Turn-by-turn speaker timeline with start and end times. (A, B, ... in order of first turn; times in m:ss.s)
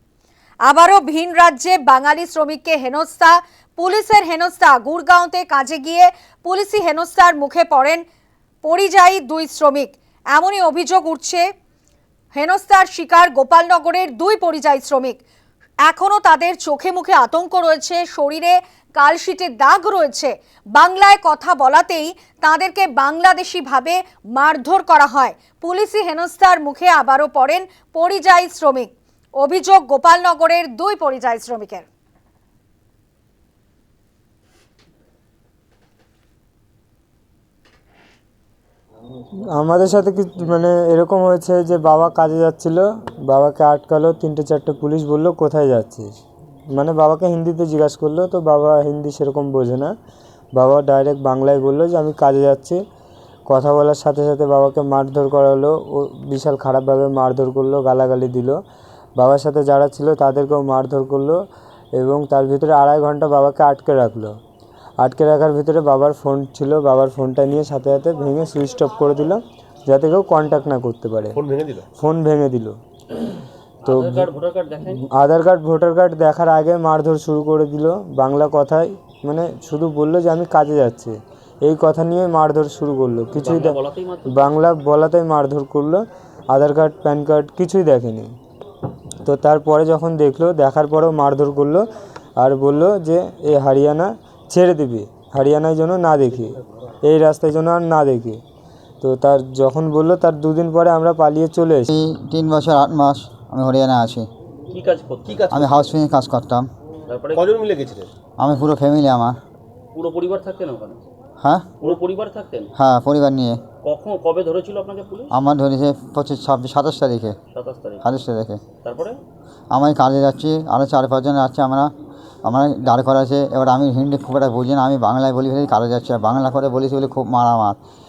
0:00.6-0:08.0 A
0:08.6-0:11.5 A
0:12.3-0:15.2 A
0:15.8-0:31.8 A
0:39.5-0:46.2 B
0:46.7-0:49.9 B
0:50.6-0:52.8 B
0:53.5-0:58.6 B
0:59.2-1:01.4 B
1:02.0-1:04.3 B
1:05.0-1:11.4 B
1:11.4-1:11.8 C
1:12.0-1:12.7 B
1:13.8-1:15.1 D
1:13.8-1:14.3 B
1:15.0-1:28.3 B
1:23.3-1:24.4 D
1:29.2-1:31.9 B
1:32.4-1:38.4 B
1:39.0-1:41.9 B
1:41.9-1:44.3 E
1:44.7-1:45.5 D
1:45.2-1:46.0 C
1:45.5-1:46.7 E
1:47.1-1:47.5 D
1:47.3-1:48.1 C
1:48.4-1:49.4 E
1:49.9-1:51.0 D
1:51.4-1:51.7 E
1:51.8-1:52.7 D
1:52.8-1:53.6 E
1:53.8-1:55.3 D
1:55.3-1:57.4 E
1:57.5-1:58.0 D
1:58.0-1:58.6 E
1:58.8-1:59.2 D
1:59.7-2:01.9 E
2:02.4-2:07.8 E